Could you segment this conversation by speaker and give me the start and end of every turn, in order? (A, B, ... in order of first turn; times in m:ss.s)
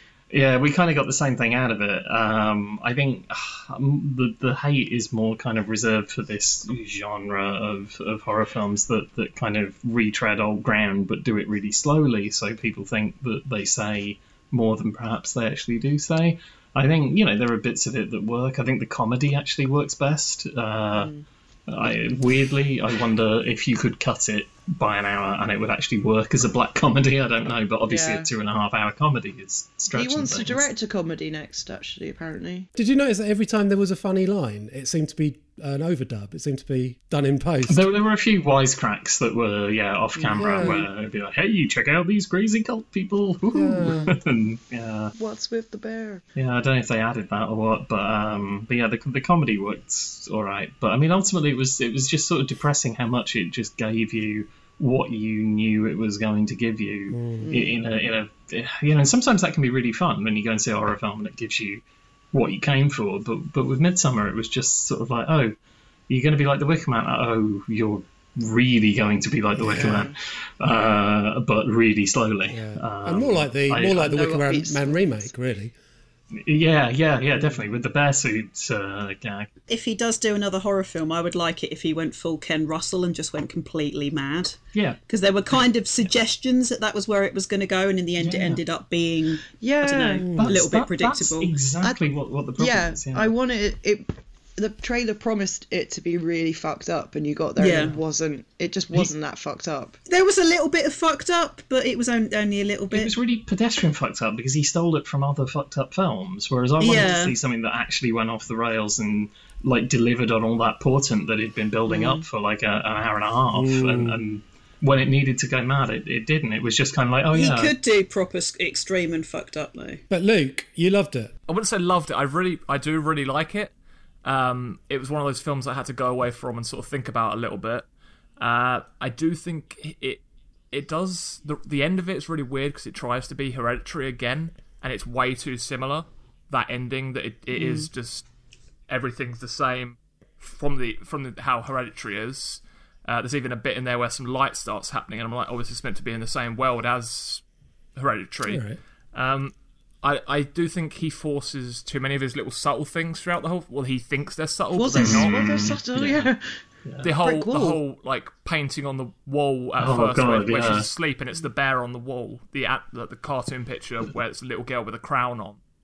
0:00.3-0:21.1 A
0:20.9-0:21.2 B
0:21.7-0:30.7 A
0:27.9-0:28.3 B
0:29.9-0:32.7 B
0:32.8-0:37.8 C
0:37.7-0:45.1 A
0:40.2-0:40.9 B
0:40.3-0:40.9 C
0:43.5-0:44.1 C
0:43.8-0:44.1 B
0:45.1-0:46.2 B
0:46.4-1:01.8 A
0:57.1-0:57.5 C
0:57.4-0:57.8 B
1:02.3-1:05.5 A
1:06.1-1:14.2 A
1:09.6-1:10.1 C
1:09.8-1:10.1 B
1:12.5-1:15.7 C
1:14.0-1:15.3 B
1:16.3-1:19.5 A
1:19.7-1:31.5 D
1:24.7-1:25.0 A
1:28.2-1:28.6 A
1:29.6-1:30.4 B
1:30.2-1:30.6 C
1:30.4-1:33.3 A
1:32.6-1:40.0 B
1:37.6-1:38.0 D
1:40.1-1:43.2 D
1:42.9-1:57.7 A
1:46.8-1:47.4 D
1:51.9-1:52.2 B
1:53.5-1:54.2 C
1:57.3-2:00.0 D
2:00.1-2:01.3 C
2:01.5-2:03.7 E
2:04.2-2:07.9 E
2:08.4-2:18.3 E
2:17.6-2:17.9 B
2:18.9-2:27.4 E
2:28.0-2:28.6 E
2:28.5-2:28.8 C
2:29.1-2:35.6 E
2:34.7-2:36.6 B
2:35.0-2:36.3 A
2:37.0-2:45.6 E
2:37.2-2:37.8 B
2:39.8-2:40.9 A